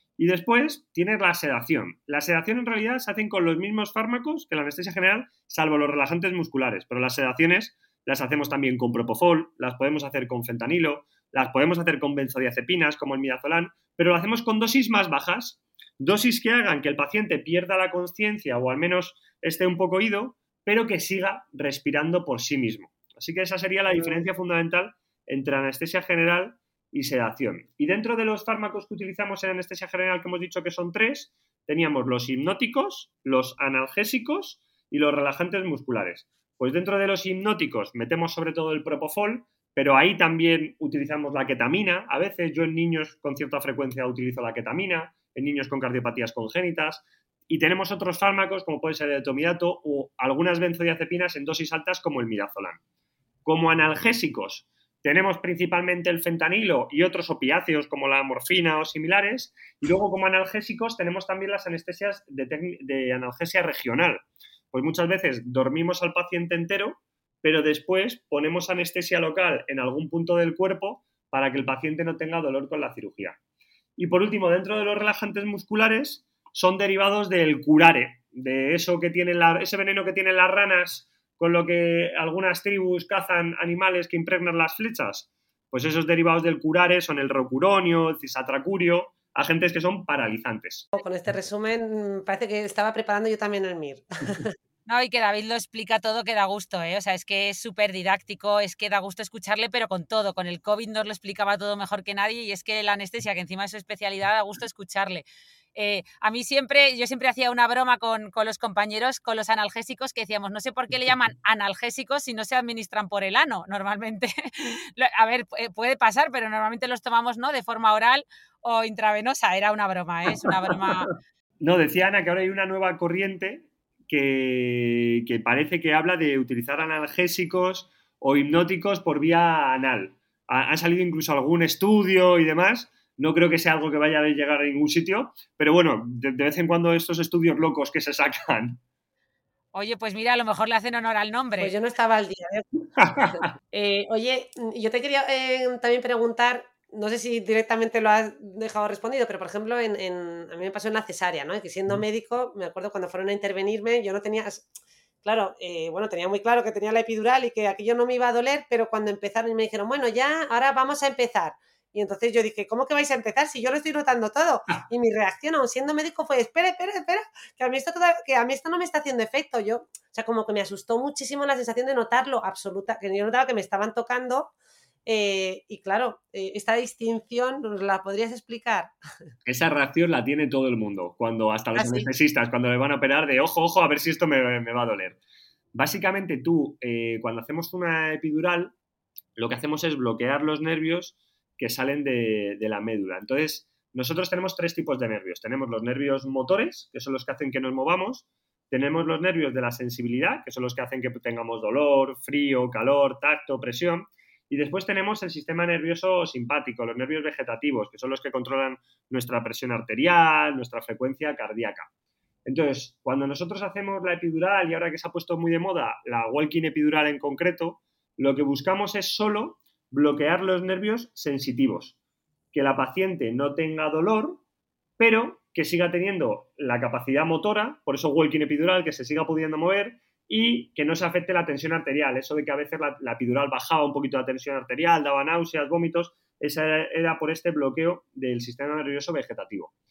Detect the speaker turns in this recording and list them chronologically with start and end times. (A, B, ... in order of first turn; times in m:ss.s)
0:00.2-0:52.8 A
0:23.9-0:24.2 B
0:53.4-1:13.4 A
1:14.0-1:30.9 A
1:31.0-1:34.6 B
1:34.9-1:45.2 C
1:45.8-2:01.2 C
2:00.5-2:01.0 A
2:01.6-2:18.8 A
2:19.7-2:21.7 C
2:21.6-2:22.7 B
2:23.0-2:23.3 A
2:23.2-2:34.7 B
2:35.2-2:54.5 B
2:55.1-2:58.9 B
2:59.5-3:05.2 A
3:01.8-3:02.1 B
3:05.7-3:08.7 A
3:09.4-3:31.9 A
3:32.5-3:42.0 A
3:42.5-3:44.4 A
3:45.0-3:59.7 A